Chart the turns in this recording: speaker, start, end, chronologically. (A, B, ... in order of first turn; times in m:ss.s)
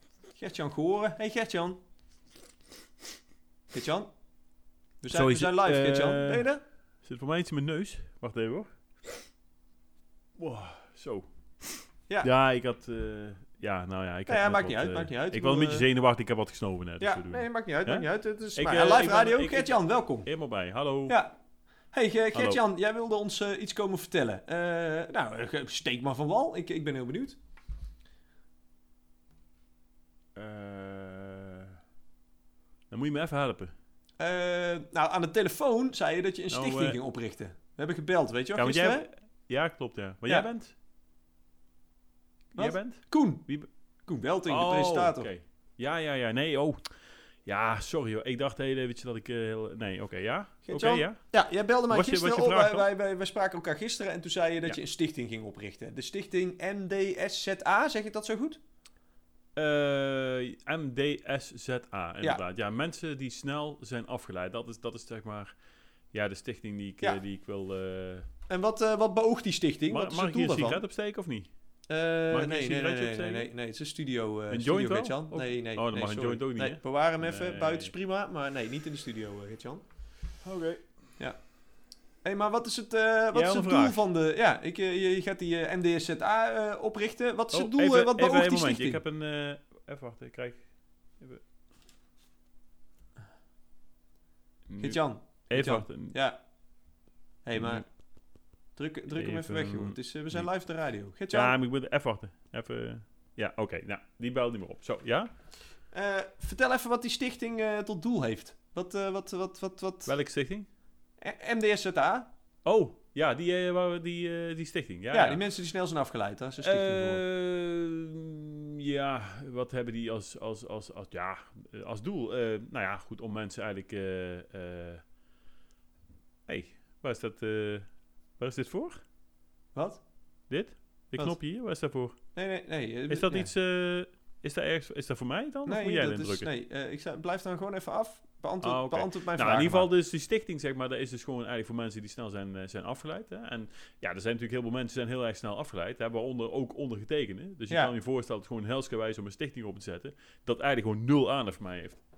0:00.3-0:01.8 A
0:03.7-0:04.1 A
0:05.0-0:06.6 A
0:05.1-0:06.5 B
0:07.0-0:08.7 B
0:10.4-0:21.2 B
0:14.3-0:15.9 A
0:17.0-0:20.3 A
0:21.1-0:21.3 A
0:21.9-0:27.4 A
0:22.3-0:22.6 B
0:30.4-0:31.7 B
0:32.9-0:33.7 B
0:34.2-0:39.0 A
0:36.5-0:37.0 B
0:38.6-0:40.7 B
0:42.5-0:43.7 B
0:42.6-0:43.4 A
0:44.0-0:45.3 A
0:44.5-0:46.9 B
0:47.4-0:51.2 B
0:50.6-0:58.6 A
0:51.9-0:52.9 B
0:59.6-1:05.5 B
1:06.1-1:08.3 B
1:08.5-1:10.8 A
1:09.9-1:11.5 B
1:11.9-1:19.8 A
1:12.3-1:13.5 B
1:14.5-1:17.9 B
1:20.4-1:20.8 B
1:22.2-1:29.0 A
1:23.3-1:24.0 B
1:27.5-1:30.7 B
1:34.7-1:36.1 B
1:34.8-1:36.4 A
1:37.4-1:37.8 A
1:37.5-1:37.8 B
1:38.8-1:41.6 A
1:39.1-1:40.5 B
1:41.3-1:45.3 B
1:45.9-1:50.1 A
1:50.0-1:50.7 B
1:51.2-1:52.3 A
1:52.6-1:55.4 B
1:55.1-1:57.2 A
1:56.6-2:05.0 B
2:06.5-2:07.8 B
2:08.4-2:09.0 B
2:09.7-2:10.0 A
2:10.5-2:12.2 B
2:12.3-2:13.5 A
2:13.1-2:16.5 B
2:15.6-2:19.9 A
2:18.6-2:32.0 B